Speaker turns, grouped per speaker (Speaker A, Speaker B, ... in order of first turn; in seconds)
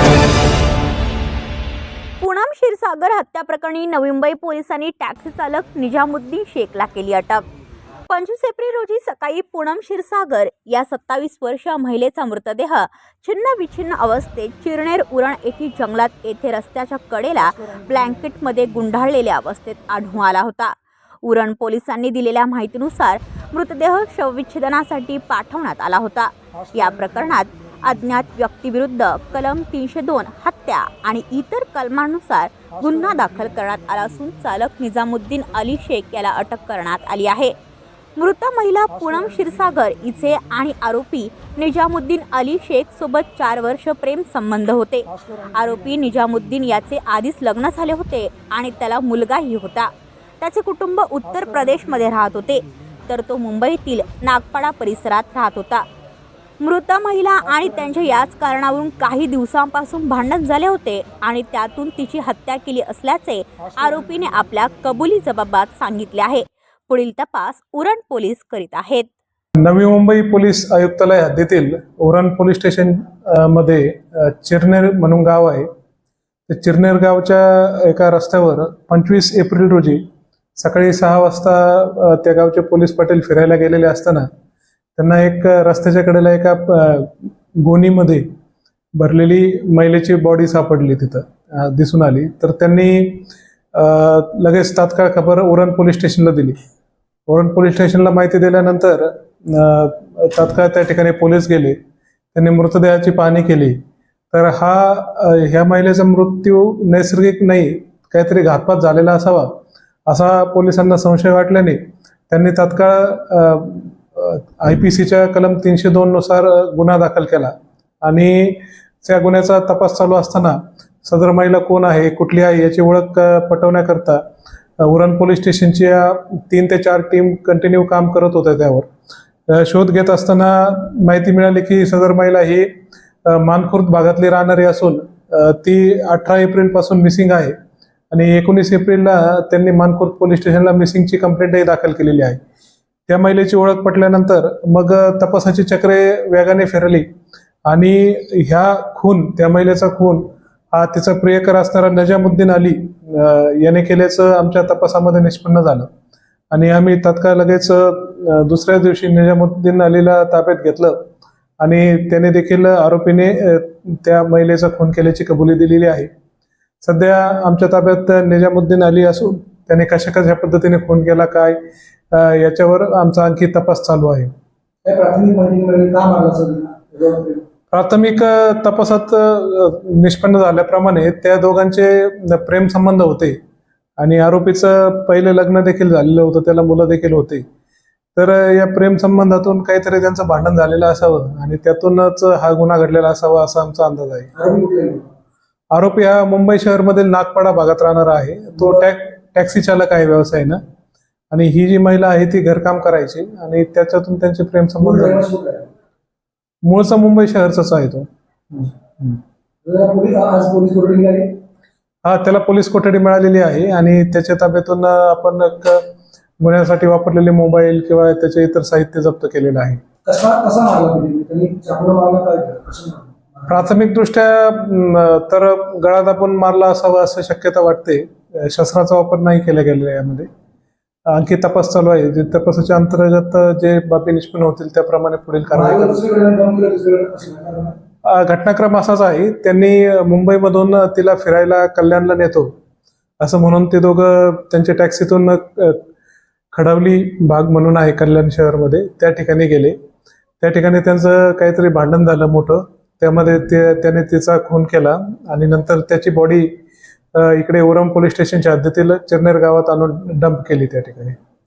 Speaker A: 2.2-7.4, 8.1-37.5, 38.2-55.9, 56.6-69.1
Speaker B: 69.6-75.7, 76.5-80.0, 80.6-84.3, 85.0-88.2, 89.0-96.6, 97.3-101.8, 102.3-103.8, 104.3-109.5, 110.1-111.8, 112.3-124.2, 124.8-128.9, 129.5-132.7, 133.3-137.6, 138.1-142.4, 143.1-147.1, 147.7-155.9, 156.5-161.1, 161.6-166.1, 166.8-171.6, 172.1-174.3, 177.7-183.4, 184.0-187.4, 188.2-194.3, 195.7-200.6, 201.3-205.3, 206.7-209.2, 212.1-215.8, 216.4-219.8, 223.5-230.3, 231.1-236.1, 238.1-242.5, 243.2-245.8, 246.5-249.8, 250.4-256.5, 257.2-261.2
Speaker C: 174.8-177.4, 194.3-195.1, 204.8-205.7, 209.7-211.3, 220.1-223.6, 235.5-237.8